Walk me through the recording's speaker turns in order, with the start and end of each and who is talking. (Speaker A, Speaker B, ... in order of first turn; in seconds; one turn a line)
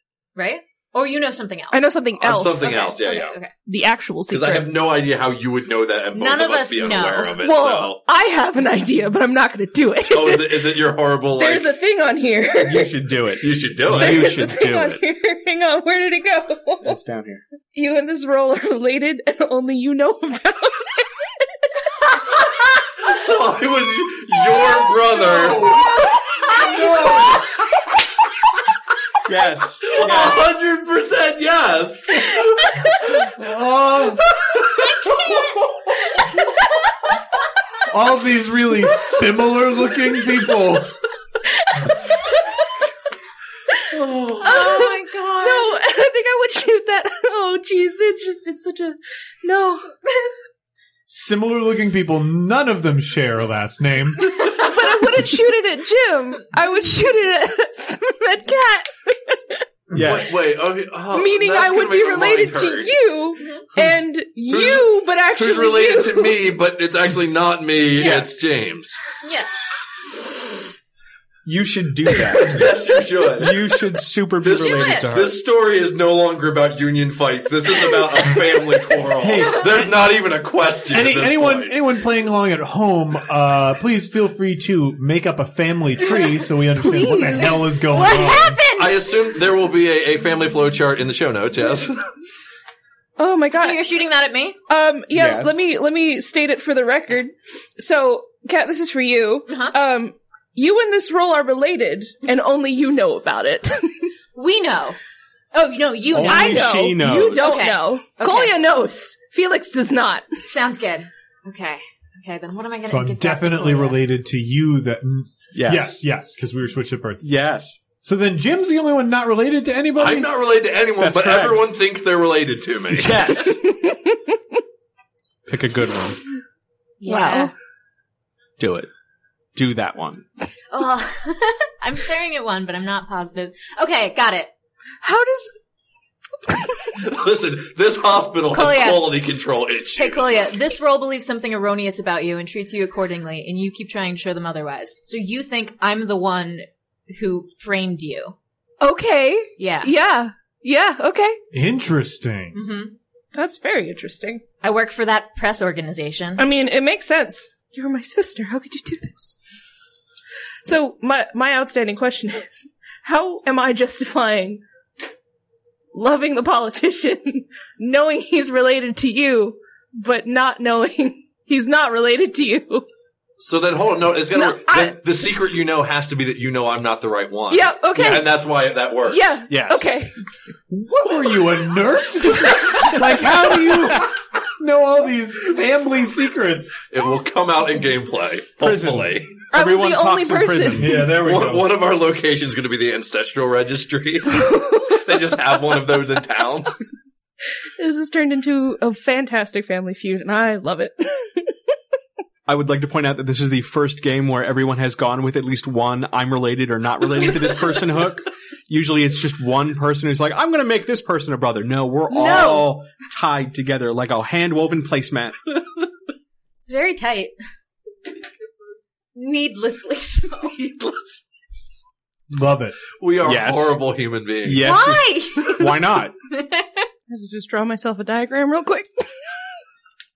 Speaker A: 0.3-1.9
Speaker B: 1.7-2.9
Speaker C: 2.2-3.4
Speaker A: 2.6-3.5
Speaker B: 3.6-4.7
Speaker C: 4.3-8.0
Speaker A: 6.1-7.4
Speaker B: 7.4-10.7
Speaker C: 10.1-11.7
Speaker B: 11.3-12.9
Speaker D: 12.6-15.0
Speaker C: 13.4-14.4
Speaker B: 13.9-17.0
Speaker D: 16.8-17.4
Speaker B: 17.7-21.4
Speaker B: 22.2-22.5
Speaker C: 23.0-27.2
Speaker B: 24.8-25.8
Speaker E: 26.8-27.3
Speaker D: 29.2-30.5
Speaker C: 29.8-32.9
Speaker E: 33.3-34.2
Speaker C: 34.5-35.6
Speaker E: 37.9-40.9
Speaker B: 41.7-42.4
Speaker C: 43.9-44.4
Speaker A: 44.4-45.7
Speaker B: 44.4-50.3
Speaker E: 51.1-54.6
Speaker B: 54.4-59.6
Speaker D: 59.9-60.4
Speaker C: 59.9-62.9
Speaker B: 61.1-66.4
Speaker C: 64.5-69.0
Speaker A: 69.2-69.7
Speaker D: 71.4-72.8
Speaker C: 72.3-73.6
Speaker D: 73.3-75.4
Speaker C: 74.4-81.7
Speaker A: 74.5-75.1
Speaker E: 79.2-79.8
Speaker E: 80.9-88.6
Speaker B: 86.8-87.7
Speaker A: 87.9-89.0
Speaker C: 88.7-92.1
Speaker B: 93.2-93.8
Speaker A: 93.5-94.6
Speaker B: 94.7-104.1
Speaker D: 95.1-95.6
Speaker A: 99.5-99.7
Speaker A: 104.3-105.0
Speaker A: 105.5-108.5
Speaker D: 106.1-107.6
Speaker B: 106.2-110.3
Speaker A: 110.5-114.0
Speaker E: 112.9-117.2
Speaker D: 115.5-116.0
Speaker D: 117.2-117.8
Speaker E: 118.0-120.3
Speaker C: 120.0-123.4
Speaker D: 121.0-121.7
Speaker D: 122.9-123.6
Speaker B: 123.6-124.3
Speaker D: 125.5-126.2
Speaker A: 127.0-127.5
Speaker B: 127.0-127.5
Speaker D: 128.6-128.9
Speaker D: 129.5-130.2
Speaker A: 130.7-134.5
Speaker B: 135.0-135.5
Speaker C: 136.9-140.5
Speaker A: 138.5-139.2
Speaker A: 139.9-148.3
Speaker B: 148.8-151.4
Speaker A: 149.6-149.9
Speaker E: 151.5-152.6
Speaker A: 152.5-152.9
Speaker B: 153.3-154.4
Speaker A: 154.6-156.4
Speaker B: 156.4-159.3
Speaker B: 160.6-164.6
Speaker B: 165.9-172.9
Speaker C: 173.4-179.4
Speaker B: 174.3-175.0
Speaker B: 177.5-178.4
Speaker B: 179.0-180.1
Speaker D: 179.5-179.9
Speaker E: 180.7-186.8
Speaker B: 182.4-182.9
Speaker C: 186.9-189.3
Speaker D: 188.6-191.1
Speaker B: 189.5-191.1
Speaker E: 190.7-191.7
Speaker C: 191.1-196.8
Speaker B: 194.3-195.1
Speaker B: 197.8-201.5
Speaker D: 202.4-215.5
Speaker B: 212.1-212.7
Speaker A: 212.2-212.5
Speaker A: 216.6-217.3
Speaker A: 219.1-220.6
Speaker C: 220.6-221.2
Speaker E: 222.3-222.8
Speaker C: 223.0-224.7
Speaker D: 223.2-223.8
Speaker D: 224.4-226.2
Speaker A: 224.6-225.7
Speaker A: 226.3-226.8
Speaker B: 227.1-229.1